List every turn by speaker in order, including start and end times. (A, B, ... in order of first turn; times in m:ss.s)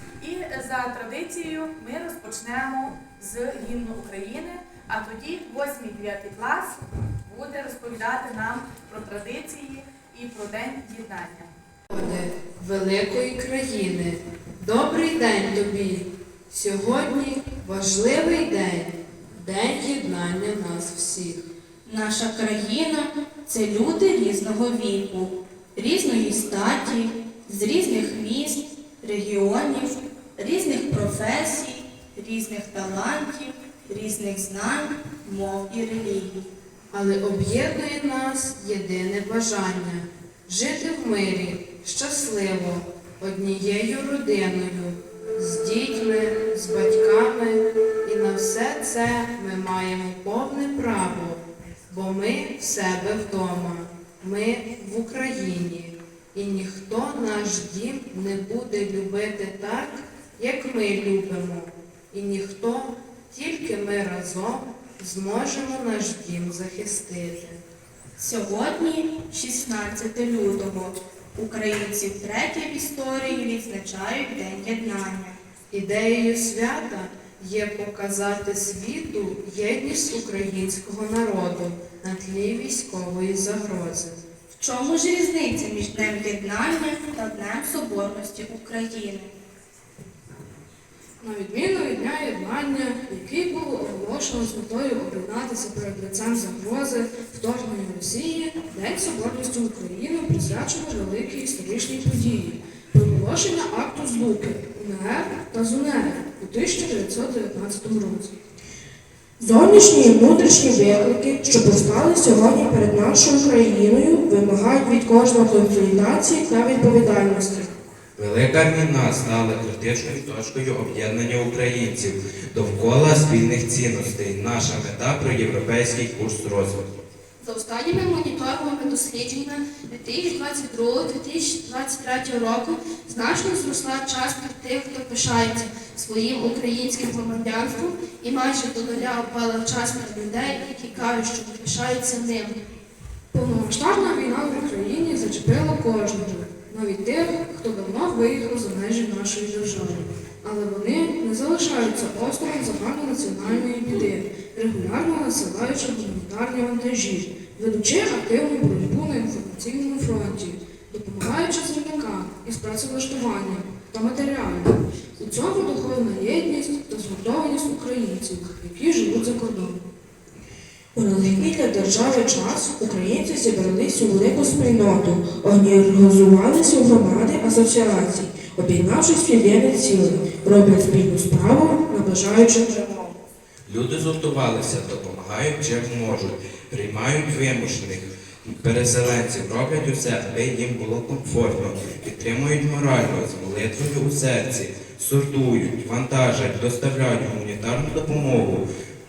0:00.2-0:11.5 A
0:11.9-0:21.4 B
0:21.8-0:36.5 C
0:36.9-1:07.6 B
1:08.2-1:15.4 C
1:15.7-1:24.2 B
1:24.6-1:29.4 C
1:31.2-1:48.3 D
1:49.4-1:57.7 E
1:58.2-2:07.0 F
2:07.4-2:22.6 G
2:23.3-2:49.9 D
2:50.9-3:03.2 E
3:03.7-3:18.6 F